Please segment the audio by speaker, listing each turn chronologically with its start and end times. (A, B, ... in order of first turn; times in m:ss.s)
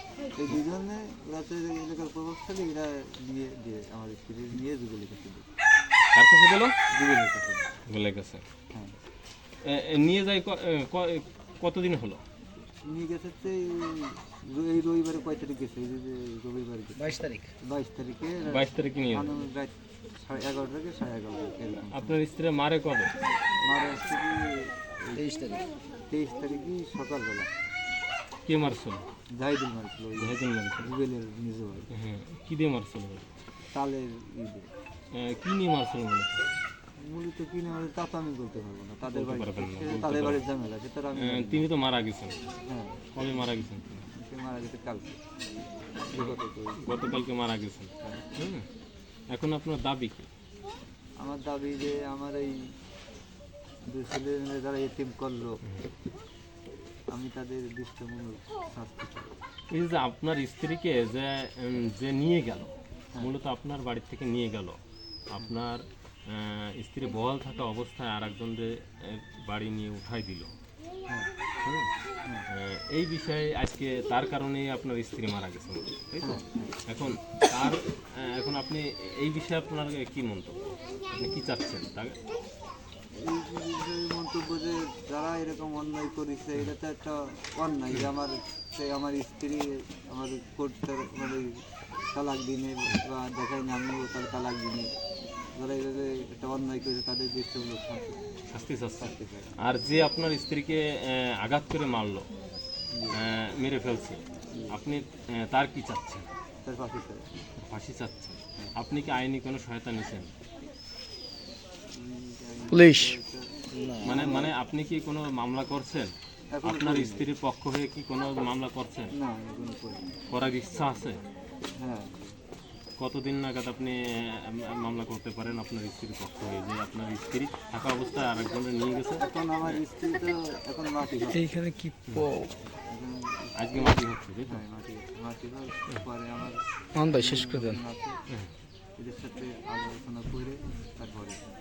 0:00.3-0:05.4 A
0:06.1-0:06.8 B
0:06.9-0:07.7 A
0:07.9-0:08.4 B
0:09.6-0:12.2 B
0:12.8-0:17.0 A
0:17.0-0:17.5 C
0:17.6-0:22.2 A
0:18.4-0:19.3 B
0:21.9-0:23.1 B
0:23.6-0:25.2 A
0:25.1-0:25.7 C
0:26.1-0:27.5 A
0:28.5-0:29.0 B
0:29.3-0:31.9 A
0:30.2-0:30.9 B
0:31.9-0:33.3 B
0:33.7-0:34.7 A
0:35.1-0:36.4 B
0:37.0-0:41.7 A
0:39.1-0:40.5 B
0:41.1-0:42.4 B
0:42.7-0:43.0 A
0:43.1-0:44.1 B
0:44.1-0:45.2 A
0:46.1-0:46.8 A
0:46.2-0:48.6 B
0:49.3-0:50.3 B
0:51.2-0:52.7 A
0:53.9-0:55.6 A
0:57.1-0:59.4 A
0:59.7-1:04.8 B
1:05.3-1:10.5 B
1:11.6-1:11.9 B
1:12.5-1:22.2 B
1:16.2-1:16.8 A
1:23.2-1:31.6 A
1:32.1-1:34.9 A
1:35.6-1:38.2 A
1:38.5-1:42.3 B
1:39.0-1:39.5 A
1:42.9-1:43.2 A
1:43.1-1:46.3 B
1:44.5-1:44.8 A
1:46.6-1:47.3 A
1:47.6-1:50.3 B
1:51.9-1:54.5 A
1:52.7-1:53.2 C
1:53.7-1:54.4 C
1:54.0-1:59.1 B
1:56.5-1:57.3 A
1:59.2-2:00.2 A
2:00.3-2:01.2 B
2:01.8-2:02.3 A
2:03.0-2:09.8 B
2:09.2-2:11.5 A
2:11.3-2:12.5 C
2:12.9-2:18.2 A
2:13.6-2:14.6 B
2:17.0-2:17.8 C
2:19.0-2:21.4 A